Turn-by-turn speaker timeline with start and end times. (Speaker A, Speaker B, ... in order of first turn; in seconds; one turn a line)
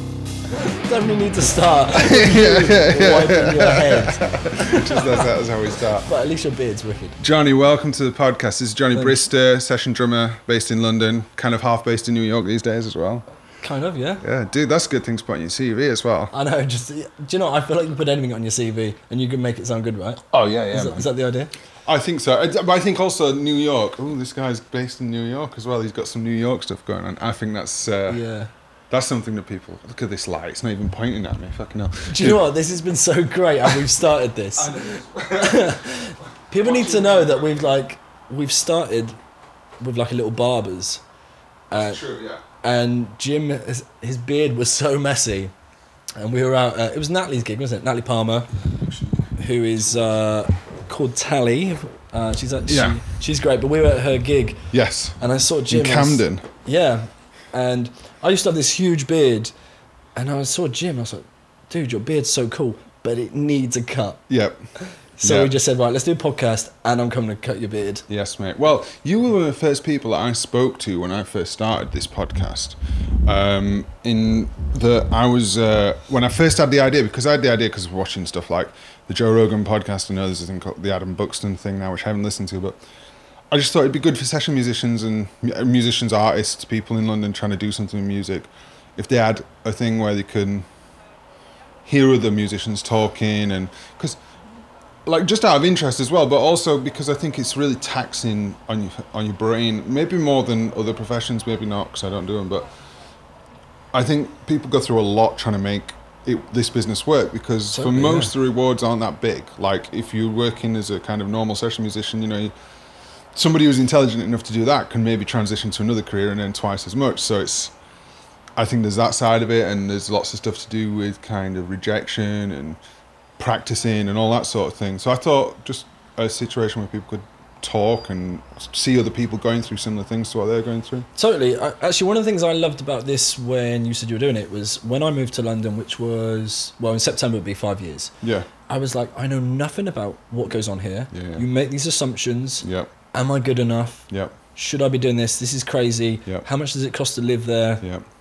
Speaker A: 0.5-5.3
Speaker B: 1.9-6.1
Speaker A: 6.0-7.2
Speaker B: 7.2-13.2
Speaker A: 8.9-9.2
Speaker A: 13.6-14.2
Speaker B: 14.2-16.3
Speaker A: 16.3-21.5
Speaker B: 20.3-21.1
Speaker B: 21.8-28.2
Speaker A: 28.1-28.5
Speaker B: 28.9-32.5
Speaker A: 32.1-39.1
Speaker B: 34.5-35.8
Speaker B: 36.6-37.5
Speaker A: 39.8-41.0
Speaker A: 41.7-42.0
Speaker B: 41.7-42.4
Speaker A: 42.6-45.5
Speaker A: 46.2-48.5
Speaker B: 48.8-49.3
Speaker A: 49.4-54.6
Speaker B: 52.7-53.0
Speaker B: 54.7-56.4
Speaker A: 55.2-59.5
Speaker A: 60.1-64.2
Speaker B: 64.3-64.6
Speaker A: 64.8-68.0
Speaker B: 65.2-65.5
Speaker B: 68.1-82.8
Speaker B: 83.5-90.7
Speaker B: 91.8-94.2
Speaker B: 95.0-102.7
Speaker B: 103.9-112.5
Speaker A: 107.7-108.3
Speaker B: 113.3-117.7
Speaker B: 118.5-122.8
Speaker B: 123.4-131.1
Speaker A: 131.2-138.1
Speaker B: 138.2-138.5
Speaker A: 138.7-147.8
Speaker B: 141.1-141.4
Speaker B: 142.6-142.9
Speaker B: 144.1-144.3